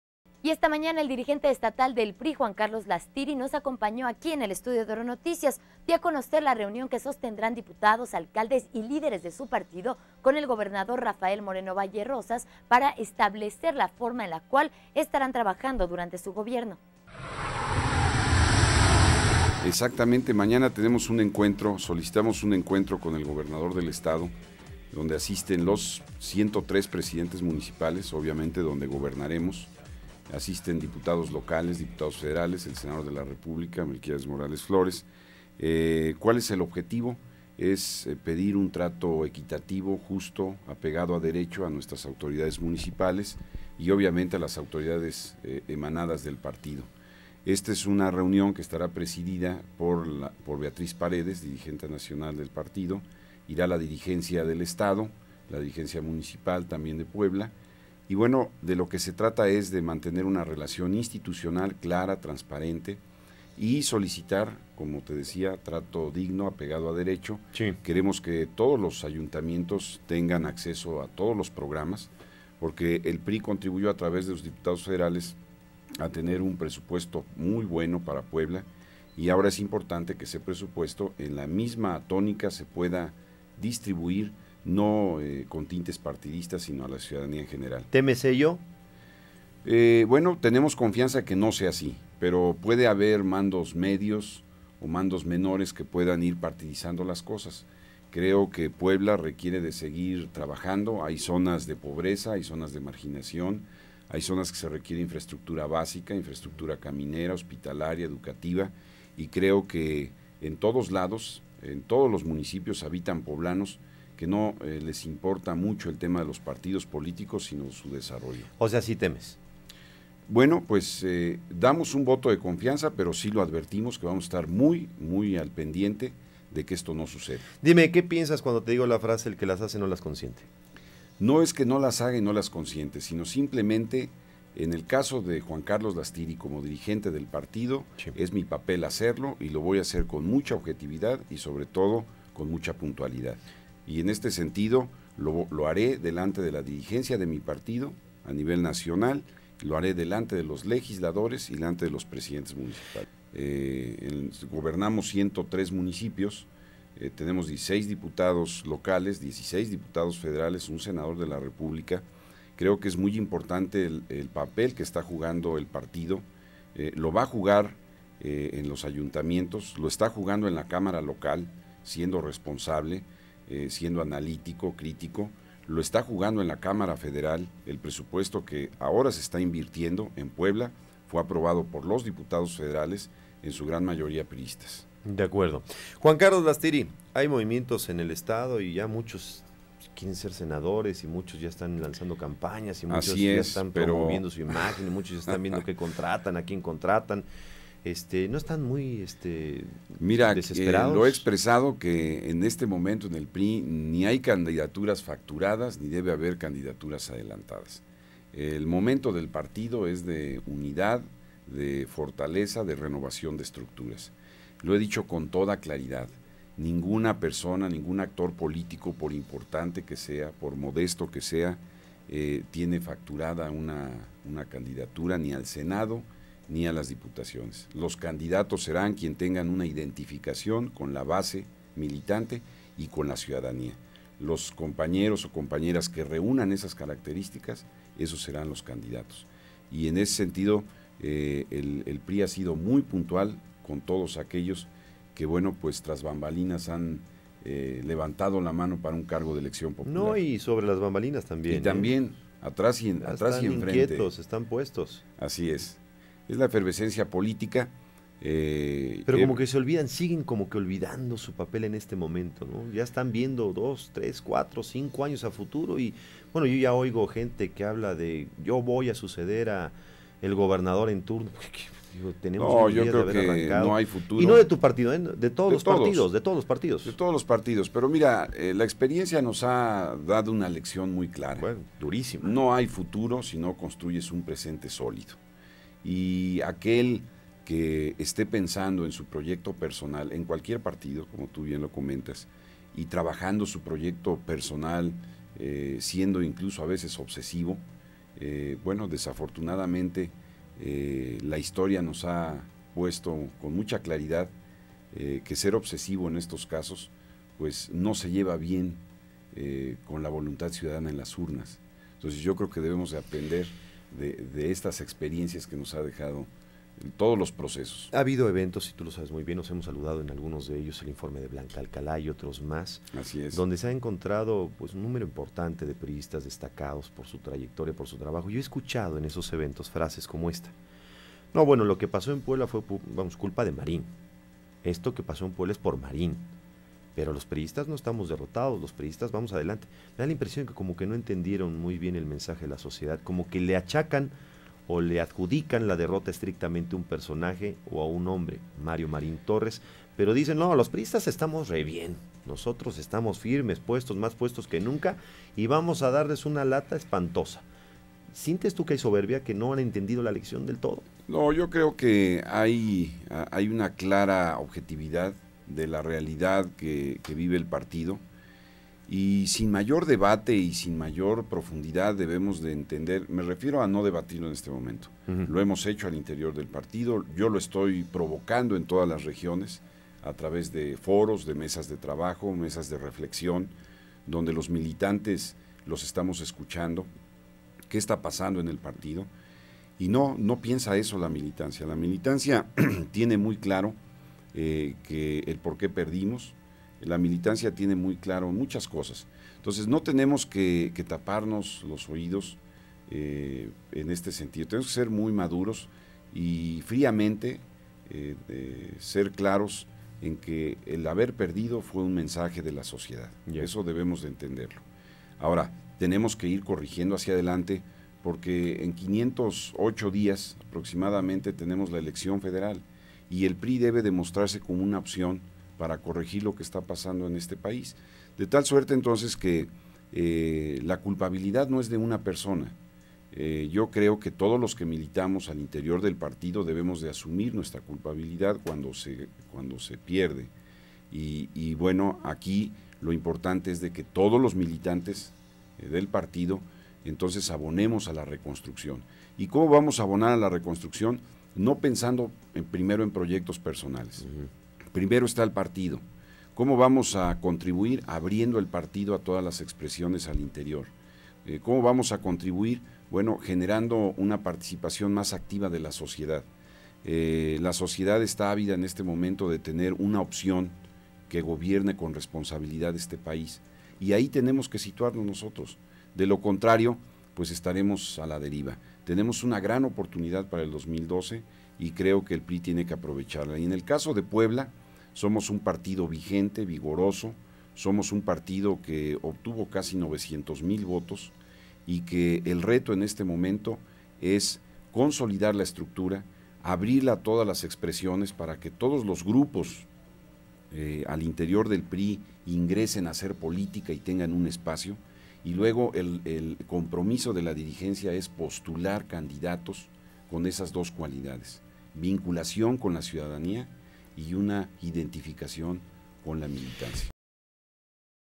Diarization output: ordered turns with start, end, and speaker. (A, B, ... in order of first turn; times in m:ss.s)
0:00.4-0:16.8 A
0:19.6-0:24.3 B
0:24.9-0:29.7 B
0:30.3-0:35.1 B
0:35.6-0:46.9 B
0:47.4-0:57.5 B
0:58.1-1:03.0 B
1:03.6-1:15.4 B
1:07.6-1:07.8 C
1:16.0-1:27.9 B
1:27.9-1:28.6 C
1:29.6-1:58.5 B
1:58.6-1:59.4 C
2:00.3-2:07.5 B
2:07.6-2:10.5 C
2:11.2-2:42.0 B
2:42.6-3:04.9 B
3:05.0-3:17.3 C
3:12.9-3:14.5 B
3:17.8-3:21.3 C
3:20.0-3:27.8 B
3:28.3-4:10.2 B
4:09.8-4:11.9 C
4:11.5-4:14.1 B
4:13.0-4:15.0 C
4:15.2-4:19.4 B
4:19.1-4:37.0 C
4:32.4-4:34.5 B
4:35.5-4:36.1 B
4:36.8-4:41.5 B
4:41.4-4:42.3 C
4:42.2-4:45.2 B
4:45.8-4:57.6 B
4:58.2-5:04.3 B
5:04.9-5:08.8 B
5:09.3-5:16.3 B
5:16.8-5:17.9 B
5:17.9-5:30.5 C
5:22.9-5:23.4 B
5:31.3-5:33.9 C
5:34.6-5:36.3 C
5:37.0-5:44.1 C
5:44.7-5:57.4 C
5:58.1-6:00.9 C
6:01.1-6:08.0 B
6:08.9-6:23.6 B
6:24.1-6:26.9 B
6:27.7-6:29.1 B
6:29.8-6:33.8 B
6:34.3-6:54.6 B
6:55.2-7:12.6 B
7:13.1-7:20.3 B
7:20.9-7:34.1 B
7:34.7-7:35.8 B
7:36.4-7:40.7 B
7:41.2-7:46.3 B
7:46.8-7:50.6 B
7:51.1-8:11.1 B
8:11.7-8:19.7 B
8:20.5-8:36.9 B